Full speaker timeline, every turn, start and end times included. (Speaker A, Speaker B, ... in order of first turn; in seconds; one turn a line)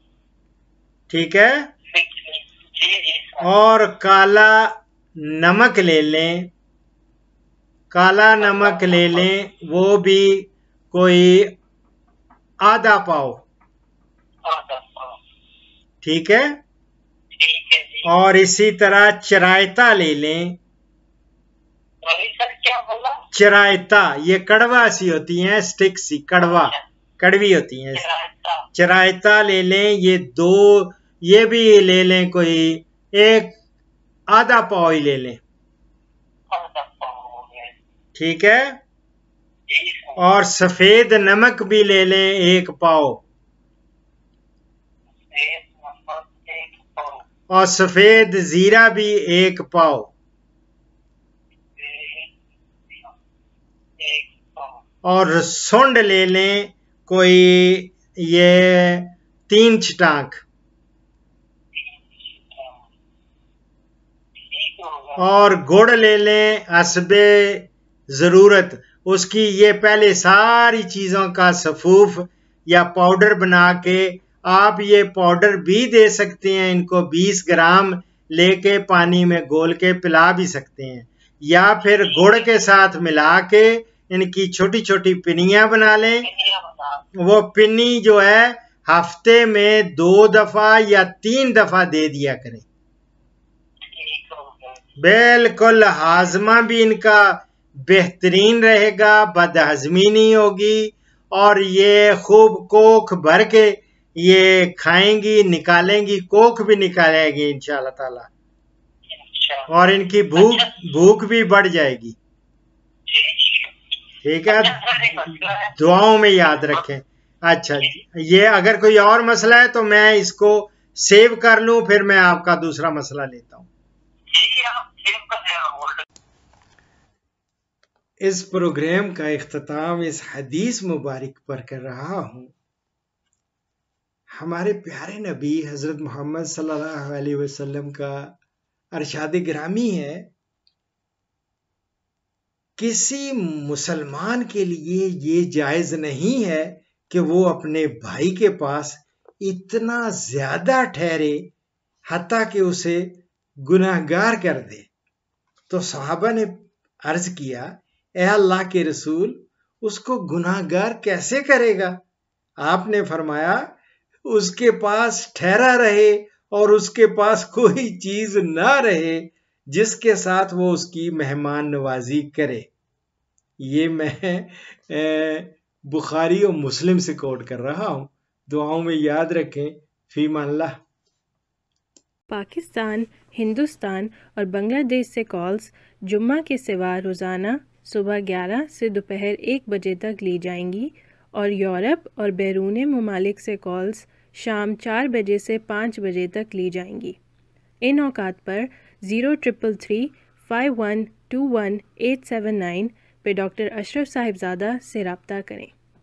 Speaker A: 1.1-1.7
Speaker B: 1.9-3.5
Speaker A: 3.4-6.5
Speaker A: 7.9-11.5
Speaker B: 8.4-9.3
Speaker A: 12.6-13.4
Speaker B: 14.4-15.2
Speaker A: 16.0-16.5
Speaker B: 17.3-18.1
Speaker A: 18.0-20.6
Speaker B: 22.0-23.2
Speaker A: 23.3-28.0
Speaker B: 26.4-26.8
Speaker B: 27.9-28.6
Speaker A: 28.7-33.5
Speaker A: 34.3-35.4
Speaker B: 36.5-37.7
Speaker A: 38.1-38.8
Speaker B: 39.7-40.2
Speaker A: 40.2-43.2
Speaker B: 45.3-47.2
Speaker A: 47.5-50.1
Speaker B: 51.8-52.3
Speaker B: 54.0-54.8
Speaker A: 55.0-60.4
Speaker B: 61.7-62.8
Speaker B: 64.4-65.2
Speaker A: 65.2-86.2
Speaker B: 81.8-82.5
Speaker B: 86.2-87.0
Speaker A: 87.2-92.6
Speaker B: 93.9-94.8
Speaker A: 95.0-108.3
Speaker B: 109.1-109.7
Speaker A: 109.7-112.2
Speaker B: 110.3-110.7
Speaker B: 113.1-113.7
Speaker A: 114.2-115.2
Speaker B: 114.5-115.7
Speaker A: 115.8-123.7
Speaker B: 124.3-126.0
Speaker A: 128.2-132.5
Speaker A: 134.3-138.3
Speaker A: 138.9-140.3
Speaker A: 142.8-151.5
Speaker A: 152.1-154.9
Speaker A: 155.7-162.0
Speaker A: 162.6-163.7
Speaker A: 164.3-172.7
Speaker A: 173.6-180.7
Speaker C: 182.3-197.2
Speaker C: 197.8-205.7